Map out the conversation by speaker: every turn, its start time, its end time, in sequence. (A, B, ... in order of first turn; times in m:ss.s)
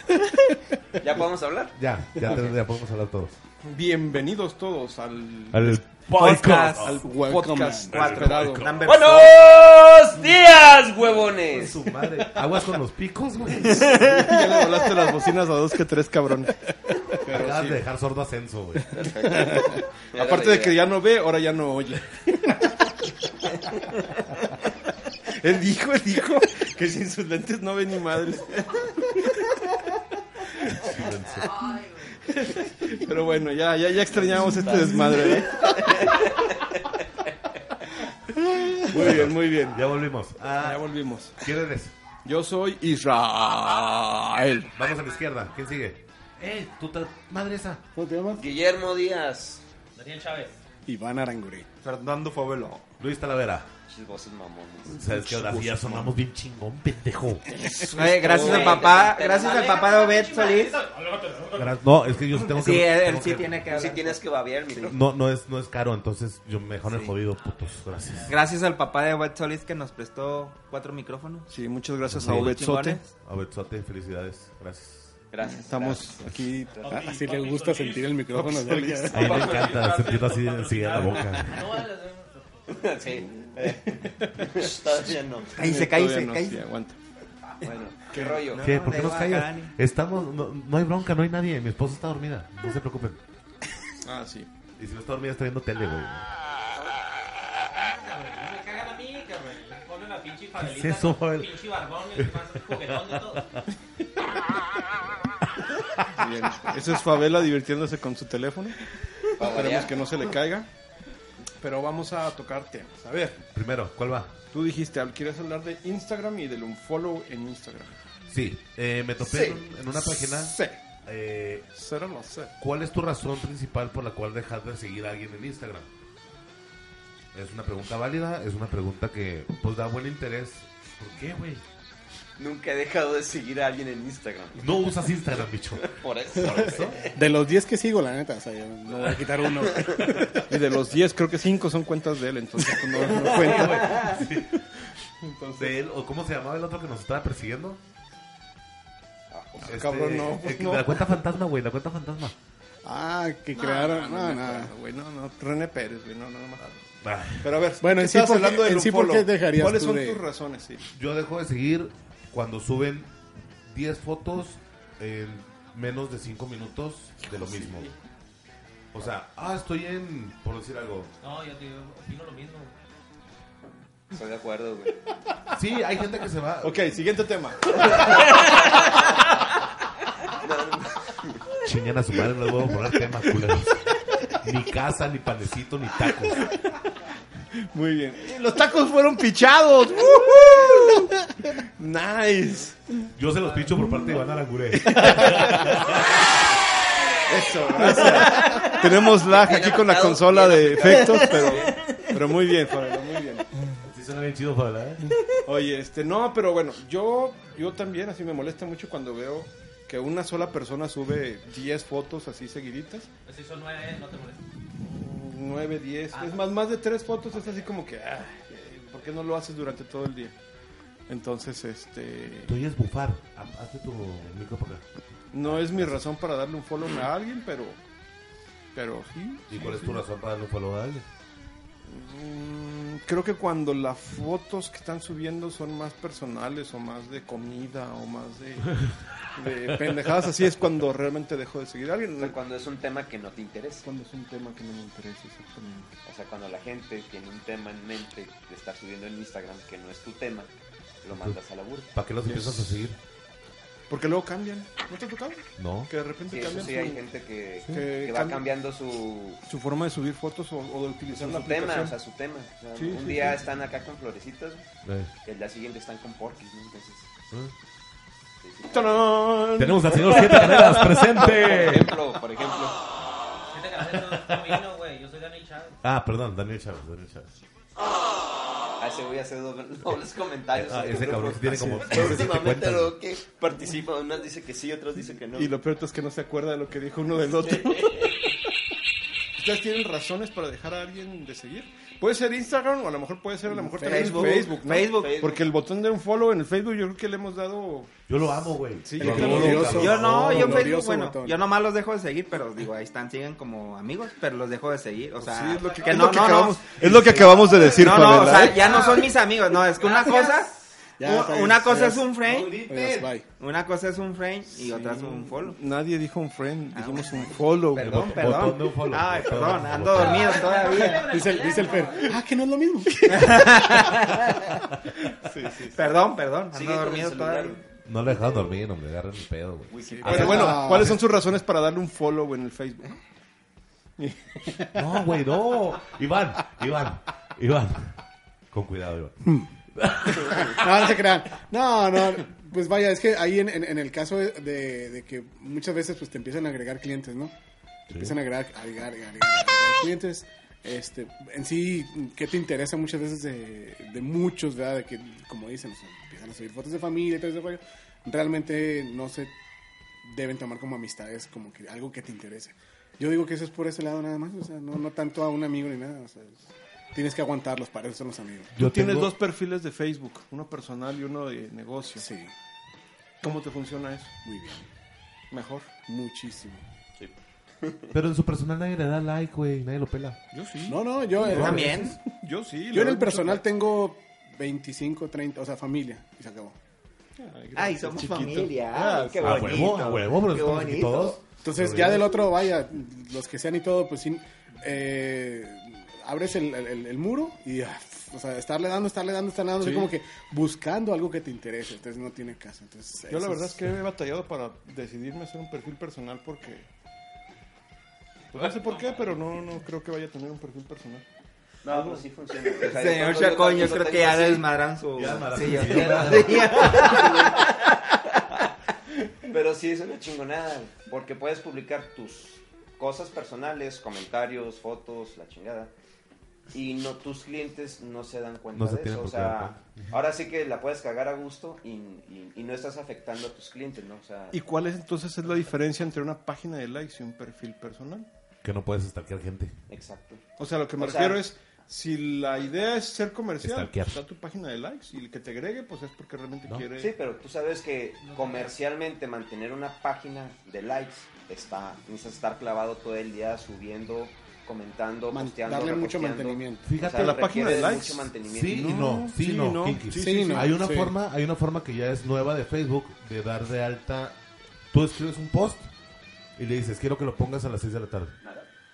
0:00.3-0:00.5 A
0:01.0-0:02.5 B
0:01.8-0:03.4 C
0:03.6-0:08.8 D
0:05.5-0:07.0 C
0:06.1-0:07.0 E
0:07.0-0:08.0 A
0:07.9-0:09.2 C
0:07.9-0:09.4 E
0:08.8-0:12.5 B
0:11.5-0:13.9 C
0:13.6-0:15.1 B
0:13.6-0:17.8 D
0:17.2-0:18.9 C
0:18.9-0:20.9 B
0:19.0-0:23.1 D
0:25.3-0:29.4 D
0:30.6-0:31.6 C
0:31.6-0:32.1 F
0:32.2-0:36.3 D
0:35.2-0:36.2 B
0:38.3-0:40.0 D
0:38.9-0:41.9 C
0:40.6-0:41.4 D
0:42.2-0:44.8 D
0:44.7-0:47.8 C
0:47.9-0:48.4 A
0:48.3-0:49.6 B
0:49.9-0:50.6 F
0:50.8-0:51.7 A
0:51.8-0:52.8 E
0:53.0-0:53.7 C
0:53.9-0:56.1 B
0:54.9-0:57.8 C
0:57.8-0:59.9 B
0:57.9-1:00.8 E
0:58.3-1:01.8 F
1:01.5-1:03.6 C
1:02.4-1:04.2 E
1:03.6-1:05.0 B
1:04.9-1:08.4 C
1:06.8-1:07.1 E
1:07.3-1:08.4 F
1:08.3-1:11.6 E
1:11.5-1:13.0 D
1:12.1-1:15.2 C
1:12.1-1:13.1 E
1:15.3-1:17.1 B
1:15.4-1:17.0 D
1:16.8-1:18.2 F
1:16.9-1:19.4 A
1:18.3-1:19.9 D
1:19.1-1:21.8 C
1:19.2-1:19.9 B
1:19.3-1:23.2 F
1:22.7-1:25.5 B
1:23.5-1:24.8 D
1:25.5-1:26.6 E
1:25.5-1:27.0 D
1:27.6-1:28.7 B
1:27.6-1:28.5 D
1:28.4-1:29.7 E
1:28.6-1:33.2 C
1:34.0-1:34.5 D
1:34.8-1:36.3 C
1:37.7-1:43.5 F
1:40.6-1:41.6 C
1:42.2-1:43.7 C
1:45.6-1:46.7 C
1:46.2-1:48.8 D
1:49.3-1:50.0 B
1:49.4-1:50.7 D
1:51.6-1:53.4 D
1:53.3-1:54.3 C
1:54.5-1:58.0 D
1:58.3-2:01.7 C
1:59.2-1:59.6 B
2:00.0-2:00.8 D
2:01.7-2:02.6 D
2:02.6-2:05.9 C
2:07.3-2:11.6 C
2:12.4-2:15.2 B
2:14.6-2:15.9 C
2:15.8-2:17.0 B
2:16.5-2:17.0 C
2:17.1-2:20.4 A
2:19.7-2:20.0 B
2:20.5-2:24.2 D
2:23.5-2:24.6 C
2:25.2-2:25.8 D
2:25.6-2:27.8 C
2:29.3-2:29.7 B
2:29.6-2:31.0 D
2:29.6-2:32.3 C
2:32.8-2:34.7 A
2:33.6-2:40.9 D
2:37.0-2:37.5 C
2:37.8-2:40.2 A
2:40.9-2:43.1 C
2:43.7-2:47.9 C
2:47.2-2:47.9 D
2:48.9-2:51.1 C
2:51.2-2:52.7 F
2:54.1-2:54.9 B
2:55.5-2:57.1 C
2:56.6-2:58.4 D
2:57.8-2:58.3 C
3:00.3-3:01.5 B
3:01.6-3:06.6 C
3:06.1-3:06.7 D
3:07.5-3:13.0 D
3:13.2-3:16.2 C
3:13.3-3:13.9 F
3:14.7-3:15.9 D
3:15.6-3:15.9 F
3:17.2-3:23.7 D
3:19.3-3:22.0 B
3:23.8-3:25.1 C
3:25.0-3:33.1 D
3:33.2-3:34.4 F
3:34.8-3:40.4 D
3:36.1-3:36.5 F
3:41.1-3:42.5 D
3:42.5-3:44.8 C
3:45.3-3:47.8 D
3:45.4-3:45.9 C
3:48.7-3:50.0 D
3:49.5-3:51.0 C
3:51.8-4:02.4 D
3:58.8-3:59.1 C
4:02.2-4:03.8 B
4:03.8-4:05.9 D
4:06.0-4:10.5 B
4:11.0-4:12.0 B
4:11.9-4:13.0 C
4:12.2-4:12.9 D
4:13.9-4:17.0 D
4:15.6-4:15.9 C
4:16.3-4:19.4 B
4:17.7-4:18.5 D
4:19.5-4:22.0 D
4:21.1-4:24.7 B
4:22.7-4:23.4 D
4:24.8-4:25.1 C
4:25.2-4:27.1 B
4:28.4-4:29.2 B
4:28.7-4:31.7 D
4:29.6-4:32.0 C
4:31.1-4:32.8 B
4:33.5-4:35.8 F
4:33.9-4:34.6 C
4:35.8-4:37.3 C
4:38.8-4:45.5 B
4:40.5-4:43.0 C
4:41.6-4:42.4 D
4:45.3-4:48.4 D
4:47.6-4:48.1 B
4:49.4-4:58.0 D
4:53.8-4:55.5 B
4:53.8-4:55.2 E
4:58.1-5:00.7 C
4:58.8-5:00.0 D
4:59.0-5:01.4 A
4:59.6-5:06.6 E
5:05.2-5:09.0 D
5:06.8-5:07.8 C
5:07.6-5:12.6 E
5:09.8-5:10.4 F
5:11.0-5:13.2 A
5:12.3-5:12.9 C
5:13.4-5:15.6 E
5:14.5-5:18.6 D
5:16.7-5:21.1 E
5:17.8-5:20.5 C
5:19.9-5:22.1 F
5:20.5-5:23.7 A
5:23.0-5:24.5 E
5:25.0-5:25.8 D
5:25.7-5:27.6 E
5:26.5-5:28.5 B
5:27.8-5:31.0 C
5:29.7-5:30.6 B
5:29.8-5:33.0 D
5:30.1-5:31.0 A
5:34.0-5:34.8 D
5:34.7-5:38.0 C
5:38.5-5:40.7 C
5:39.2-5:39.5 A
5:40.0-5:47.3 A
5:47.9-5:48.2 C
5:47.9-5:59.3 A
6:00.0-6:08.6 A
6:08.5-6:09.1 C
6:08.6-6:12.0 D
6:12.0-6:12.3 A
6:13.2-6:14.1 D
6:14.2-6:14.6 A
6:15.3-6:15.7 D
6:15.9-6:16.6 A
6:17.0-6:18.0 B
6:17.9-6:20.2 C
6:20.3-6:23.4 D
6:20.6-6:22.0 A
6:21.2-6:21.7 C
6:21.3-6:21.9 E
6:22.7-6:26.6 A
6:27.2-6:29.9 D
6:27.5-6:31.2 E
6:29.2-6:32.0 C
6:31.4-6:43.6 A
6:39.6-6:39.9 D
6:43.1-6:46.7 D
6:48.3-6:51.0 D
6:51.6-6:54.5 B
6:51.7-6:52.0 D
6:52.6-6:57.8 E
6:54.9-6:56.7 C
6:55.6-6:57.6 B
6:59.2-7:05.7 B
7:06.5-7:14.4 B
7:08.5-7:09.9 C
7:14.3-7:18.1 D
7:18.4-7:19.6 C
7:19.7-7:20.2 B
7:20.4-7:26.9 D
7:20.8-7:21.2 B
7:23.4-7:24.0 C
7:26.7-7:38.6 B
7:28.0-7:28.6 F
7:35.1-7:36.7 A
7:36.6-7:37.2 C
7:36.9-7:40.6 D
7:38.2-7:44.2 C
7:39.9-7:41.0 A
7:44.7-7:45.7 C
7:46.4-7:48.2 C
7:48.2-7:48.5 B